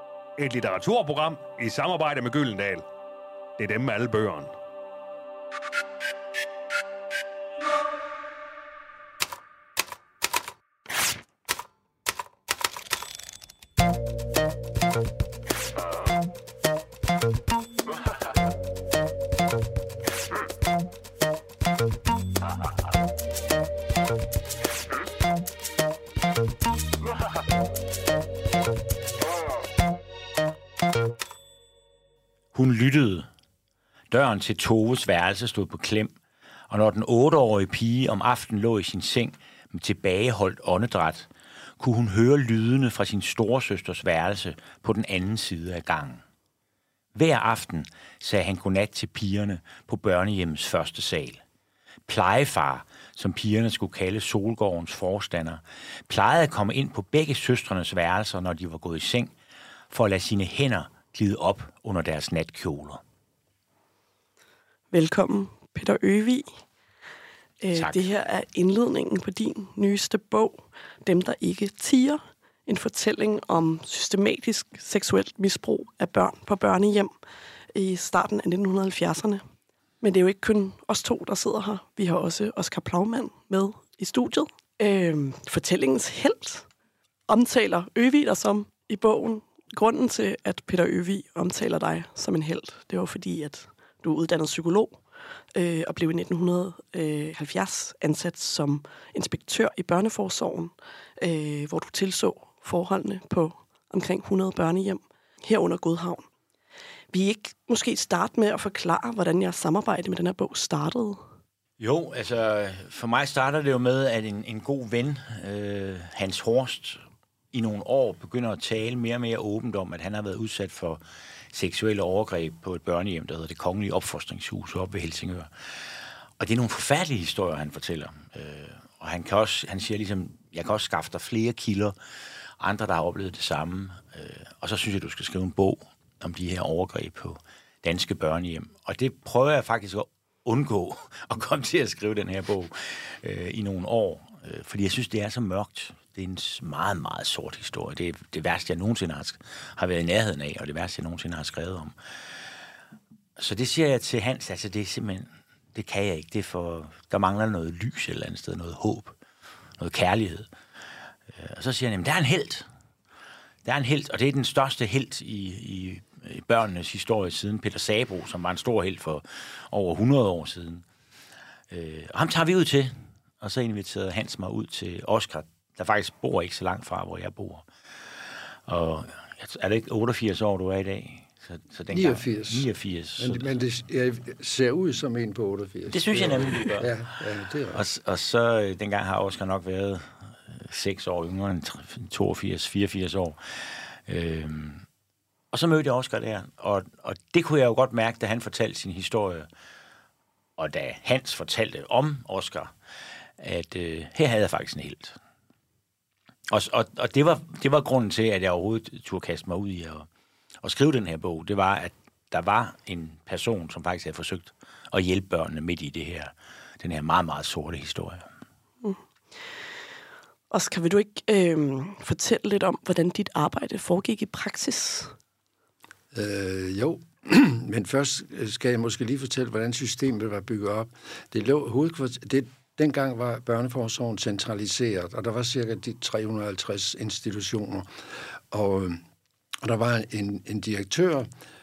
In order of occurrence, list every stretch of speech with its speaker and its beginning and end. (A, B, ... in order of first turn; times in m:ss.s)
0:00.4-0:02.9 A
0:03.6-0:04.5 A
0:32.5-0:33.3 B
0:34.1-0:36.1 B
0:36.7-0:46.2 B
0:47.1-0:51.4 B
0:52.1-0:59.3 B
0:59.9-1:03.0 B
1:04.9-1:06.4 C
1:07.6-1:17.1 C
1:07.7-1:08.0 B
1:17.7-1:19.4 C
1:20.0-1:26.7 C
1:27.3-1:35.0 C
1:35.6-1:46.2 C
1:47.1-1:51.2 C
1:51.8-2:01.0 B
2:01.5-2:12.0 B
2:12.6-2:31.9 B
2:33.4-2:39.2 B
2:39.8-2:40.5 B
2:41.3-2:42.7 B
2:43.6-2:50.8 B
2:51.7-2:57.7 B
2:58.2-3:03.5 B
3:01.9-3:02.7 D
3:03.2-3:07.8 D
3:05.9-3:06.9 B
3:07.7-3:14.8 B
3:15.5-3:19.5 B
3:20.6-3:22.7 B
3:23.4-3:25.2 B
3:26.5-3:30.1 B
3:30.6-3:38.3 B
3:40.5-3:45.1 C
3:46.1-3:57.9 D
3:58.5-3:59.0 D
3:59.6-4:01.3 D